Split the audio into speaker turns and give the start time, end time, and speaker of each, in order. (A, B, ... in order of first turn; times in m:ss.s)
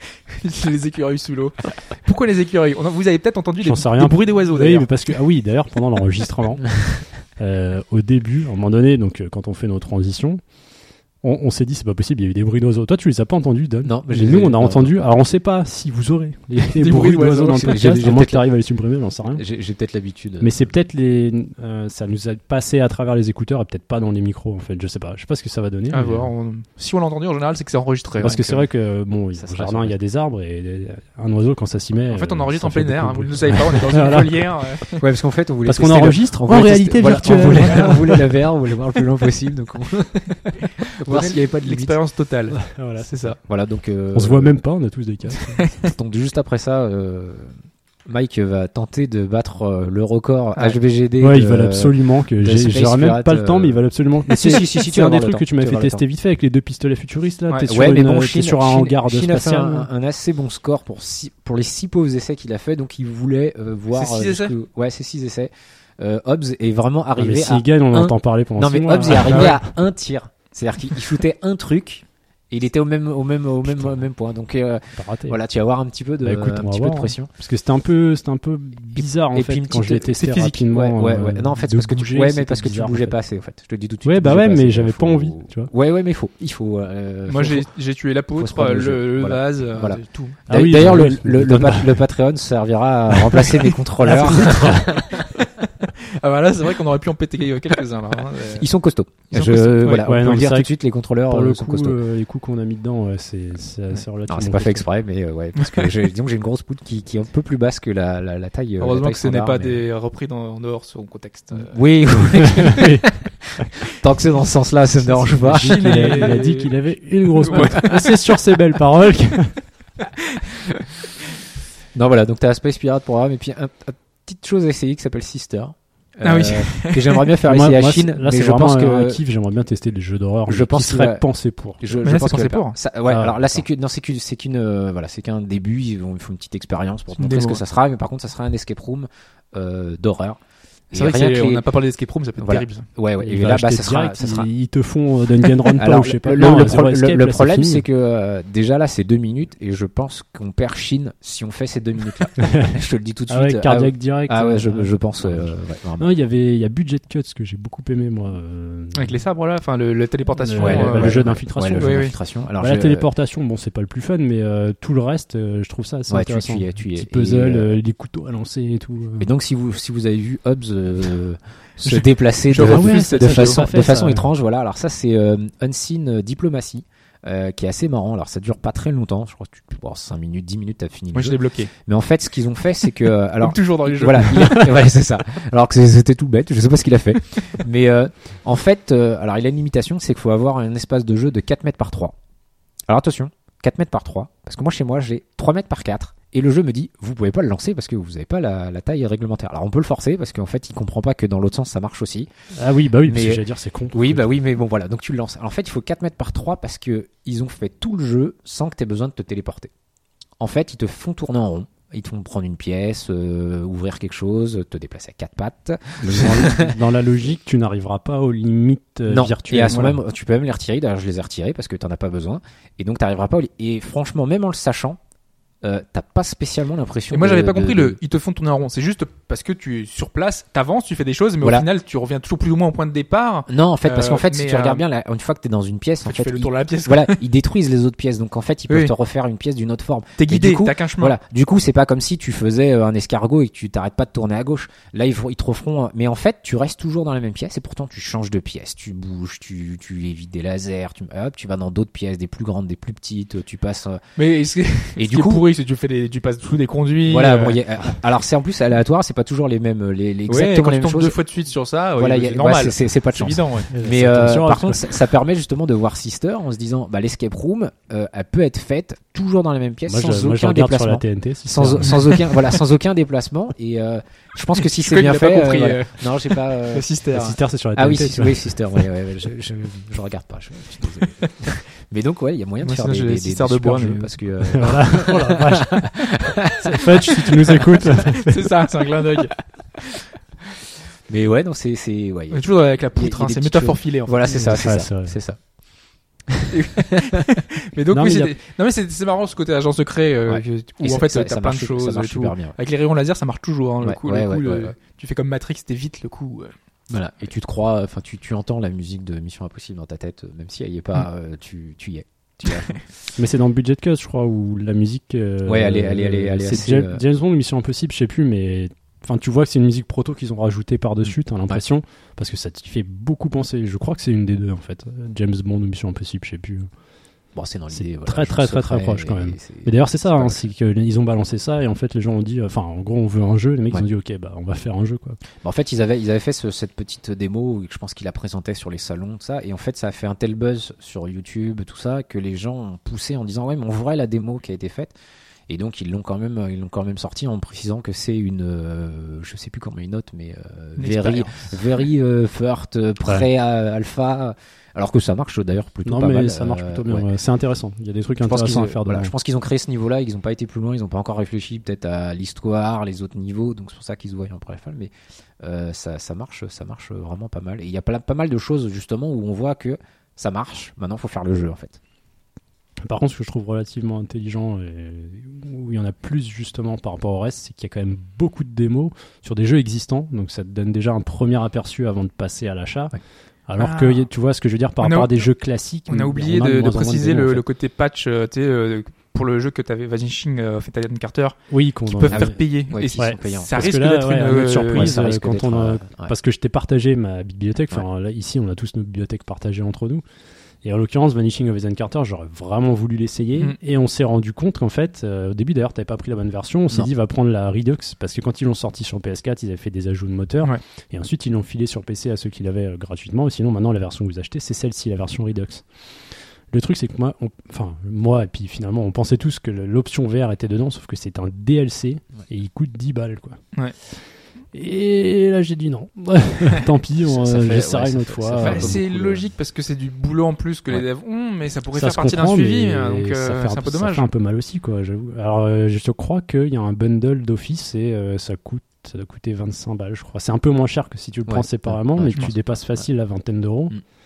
0:00.3-0:05.1 A
0:03.6-0:10.4 B
0:11.2-0:19.4 B
0:13.8-0:15.0 C
0:16.8-0:17.9 A
0:16.8-0:18.4 C
0:19.3-0:20.7 C
0:20.4-0:26.3 B
0:25.9-0:28.6 A
0:28.2-0:34.5 B
0:28.2-0:28.6 C
0:29.3-0:30.0 C
0:32.1-0:35.0 A
0:34.9-0:42.0 C
0:35.6-0:38.2 B
0:37.0-0:38.0 A
0:41.1-0:43.4 A
0:42.6-0:43.1 B
0:43.4-0:44.6 C
0:44.1-0:45.6 B
0:45.5-0:45.9 A
0:45.8-0:47.5 C
0:48.0-0:56.0 C
0:51.2-0:59.9 B
0:57.7-1:17.3 C
1:03.9-1:04.5 A
1:07.2-1:09.7 B
1:09.1-1:09.6 A
1:15.0-1:15.4 B
1:16.2-1:23.2 B
1:18.9-1:27.7 C
1:24.0-1:25.7 B
1:27.3-1:30.4 A
1:28.3-1:35.3 C
1:30.5-1:32.0 B
1:34.0-1:35.0 B
1:34.0-1:38.7 A
1:38.4-1:42.0 C
1:39.3-1:40.0 A
1:39.8-1:40.7 B
1:41.2-1:44.8 B
1:44.3-1:49.8 C
1:45.6-1:46.0 A
1:48.8-1:52.8 A
1:51.7-1:56.3 C
1:52.6-1:53.0 B
1:55.3-1:58.6 A
1:55.4-1:59.6 B
2:00.0-2:00.4 A
2:01.9-2:09.2 C
2:06.2-2:07.2 A
2:07.4-2:12.0 B
2:10.5-2:11.2 C
2:11.8-2:20.4 C
2:12.0-2:12.8 A
2:13.1-2:13.6 B
2:17.2-2:17.6 A
2:20.9-2:21.6 C
2:20.9-2:22.9 A
2:22.4-2:24.5 C
2:23.2-2:27.8 B
2:25.8-2:36.1 C
2:32.4-2:32.7 B
2:33.3-2:39.2 B
2:39.0-2:42.1 A
2:40.4-2:42.0 B
2:40.6-2:43.1 C
2:42.6-2:49.3 B
2:46.1-2:47.8 C
2:49.2-3:12.1 C
2:51.9-2:53.7 A
2:52.5-2:54.3 B
3:01.1-3:01.7 A
3:03.4-3:04.9 A
3:12.9-3:22.3 C
3:22.6-3:24.2 B
3:23.0-3:29.7 C
3:30.4-3:36.8 C
3:36.0-3:40.0 B
3:39.1-3:45.0 C
3:45.6-3:48.0 C
3:47.1-3:54.8 A
3:51.4-3:51.7 C
3:53.5-4:14.0 C
3:56.0-3:57.2 A
4:00.2-4:01.2 A
4:14.2-4:17.6 A
4:15.0-4:15.4 C
4:17.0-4:21.2 C
4:20.3-4:23.7 A
4:22.0-4:36.9 C
4:23.7-4:24.9 B
4:29.9-4:32.0 B
4:31.8-4:32.4 A
4:34.5-4:37.4 A
4:37.1-4:38.6 B
4:37.7-4:47.6 C
4:42.6-4:44.1 A
4:44.4-4:46.0 B
4:46.6-4:48.5 B
4:47.5-4:50.0 A
4:51.1-4:55.4 C
4:52.3-4:54.6 A
4:54.4-4:55.2 B
4:56.3-4:57.2 C
4:56.5-5:06.5 A
4:57.9-4:58.3 B
5:00.3-5:02.6 C
5:03.8-5:04.7 C
5:06.9-5:12.8 C
5:13.2-5:26.7 B
5:15.4-5:17.0 C
5:27.3-5:30.5 C
5:27.7-5:35.2 B
5:35.4-5:44.9 C
5:45.5-5:57.1 C
5:50.8-5:51.5 A
5:55.8-5:59.1 B
5:58.2-6:11.8 C
6:12.8-6:23.0 B
6:23.5-6:27.4 B
6:23.6-6:24.1 A
6:24.8-6:25.2 A
6:25.9-6:34.9 A
6:31.5-6:32.4 B
6:32.1-6:33.8 C
6:33.0-6:40.0 B
6:34.7-6:36.1 C
6:40.6-6:55.6 B
6:56.5-7:03.4 B
7:04.5-7:08.8 B
7:07.0-7:09.2 C
7:08.4-7:14.1 A
7:11.7-7:23.8 B
7:21.3-7:22.9 C